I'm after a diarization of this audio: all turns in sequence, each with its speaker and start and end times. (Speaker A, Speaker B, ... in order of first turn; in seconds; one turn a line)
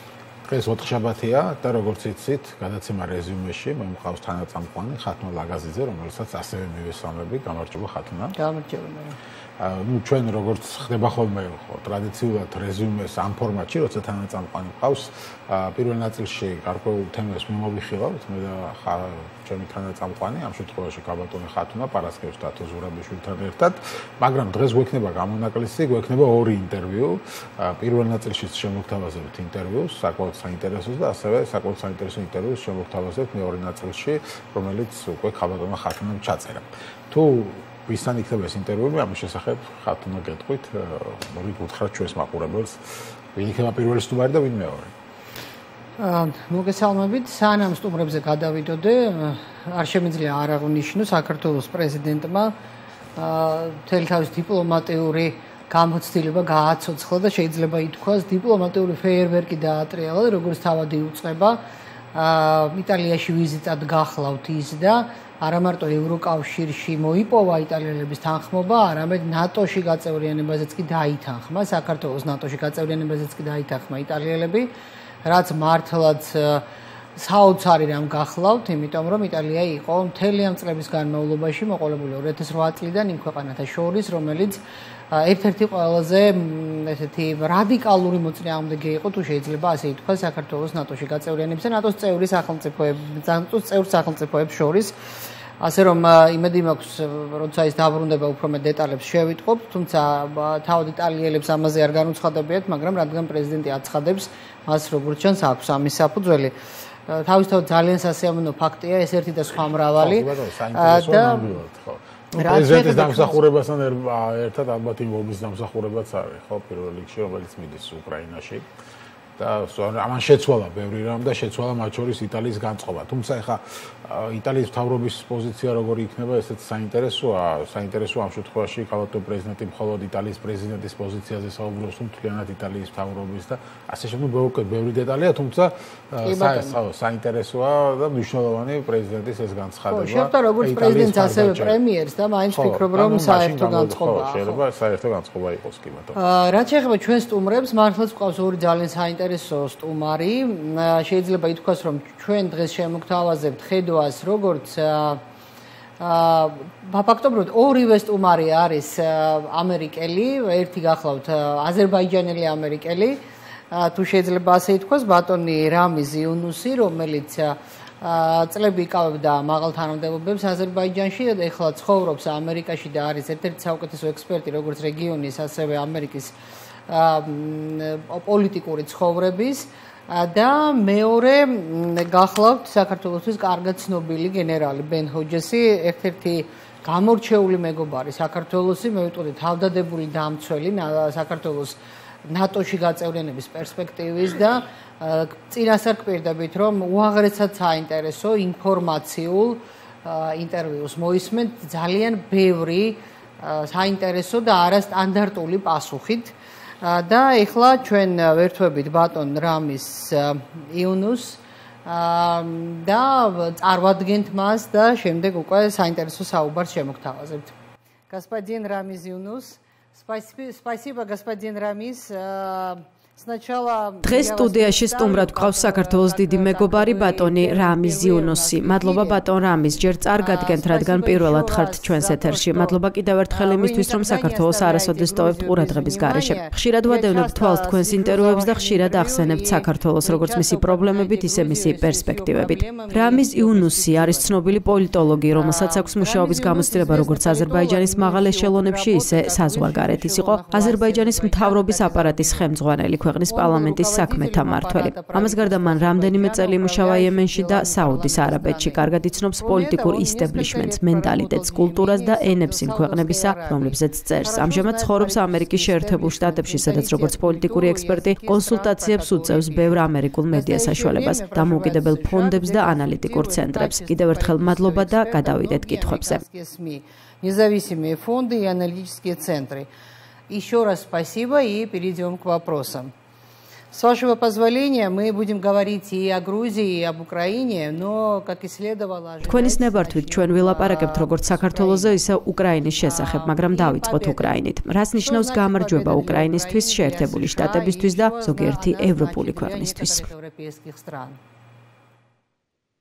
Speaker A: 0.4-8.3
Speaker B: 8.3-9.2
Speaker A: 9.6-44.9
Speaker B: 46.0-52.5
Speaker B: 53.1-61.6
Speaker B: 62.1-74.7
Speaker B: 75.2-76.6
Speaker B: 77.2-94.9
Speaker B: 95.6-106.5
Speaker B: 107.1-111.6
Speaker A: 110.0-118.7
Speaker B: 112.3-113.4
Speaker A: 119.4-141.8
Speaker B: 136.2-136.8
Speaker B: 139.9-144.6
Speaker A: 142.5-146.2
Speaker B: 146.1-155.2
Speaker B: 156.0-176.3
Speaker B: 176.9-217.5
Speaker B: 218.1-229.3
Speaker C: 224.0-276.2
Speaker B: 230.2-244.4
Speaker B: 245.3-252.5
Speaker B: 253.3-279.7
Speaker B: 280.3-282.9
Speaker B: 283.7-292.0
Speaker C: 289.2-300.1
Speaker B: 292.8-294.4
Speaker B: 294.9-301.2